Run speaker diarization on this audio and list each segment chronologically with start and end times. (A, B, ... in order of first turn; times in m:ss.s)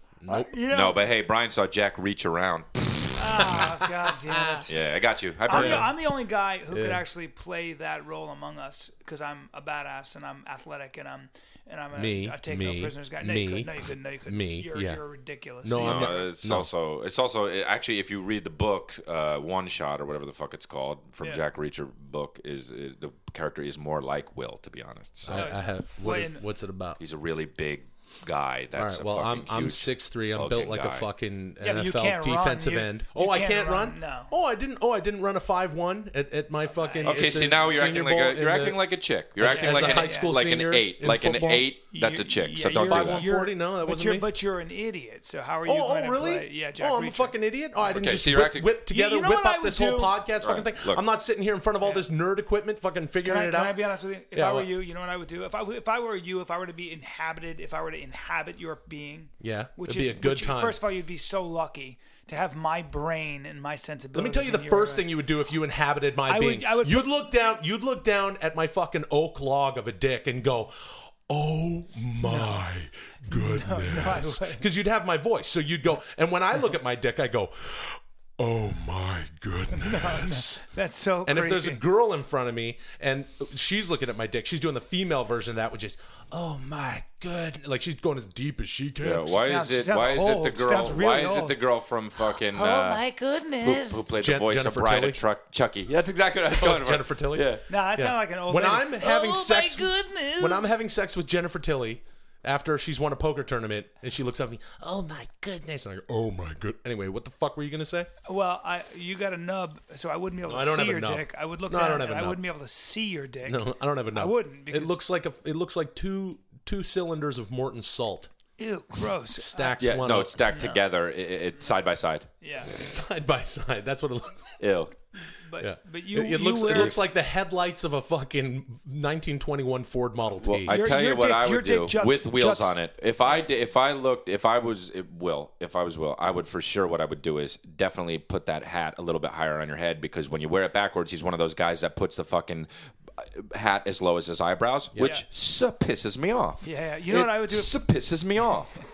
0:00.2-0:00.5 A
0:00.3-0:01.0 B
0:00.6-0:02.8 C
0:03.2-0:04.7 B
0:03.6-0:04.7 A
0:04.7-0:05.9 C
0:05.5-0:16.3 B
0:05.5-0:06.0 A
0:06.7-0:07.0 A
0:11.9-0:15.0 A
0:15.6-0:16.7 A
0:15.8-0:25.5 C
0:25.3-0:27.0 A
0:25.3-0:26.4 B
0:27.0-0:31.1 C
0:28.8-0:38.8 A
0:31.6-0:34.3 B
0:36.8-0:37.3 B
0:37.0-0:43.2 C
0:39.4-0:41.7 A
0:39.5-0:40.4 B
0:41.9-0:47.4 B
0:42.7-0:44.3 A
0:45.7-0:53.8 A
0:47.8-0:48.7 C
0:48.9-0:50.2 B
0:50.4-0:51.0 C
0:51.8-0:52.1 B
0:53.2-1:05.1 B
0:54.3-0:54.7 A
0:59.4-1:00.8 A
1:04.1-1:20.6 A
1:06.3-1:07.1 B
1:12.2-1:12.6 B
1:13.3-1:14.6 B
1:19.8-1:21.8 B
1:21.2-1:29.2 A
1:29.0-1:33.0 C
1:29.3-1:31.6 B
1:32.3-1:34.0 B
1:33.6-1:37.6 C
1:34.1-1:35.2 A
1:36.5-1:48.1 A
1:37.7-1:40.7 B
1:48.3-1:55.0 B
1:50.5-1:52.4 A
1:53.4-1:58.3 A
1:58.6-1:59.8 B
1:59.4-2:00.4 A
1:59.8-2:02.3 C
2:00.5-2:00.8 B
2:02.4-2:02.7 B
2:02.6-2:04.6 A
2:04.6-2:04.9 C
2:05.3-2:07.0 B
2:05.6-2:10.7 A
2:10.4-2:28.8 C
2:10.7-2:12.7 B
2:24.9-2:25.2 A
2:26.6-2:27.8 B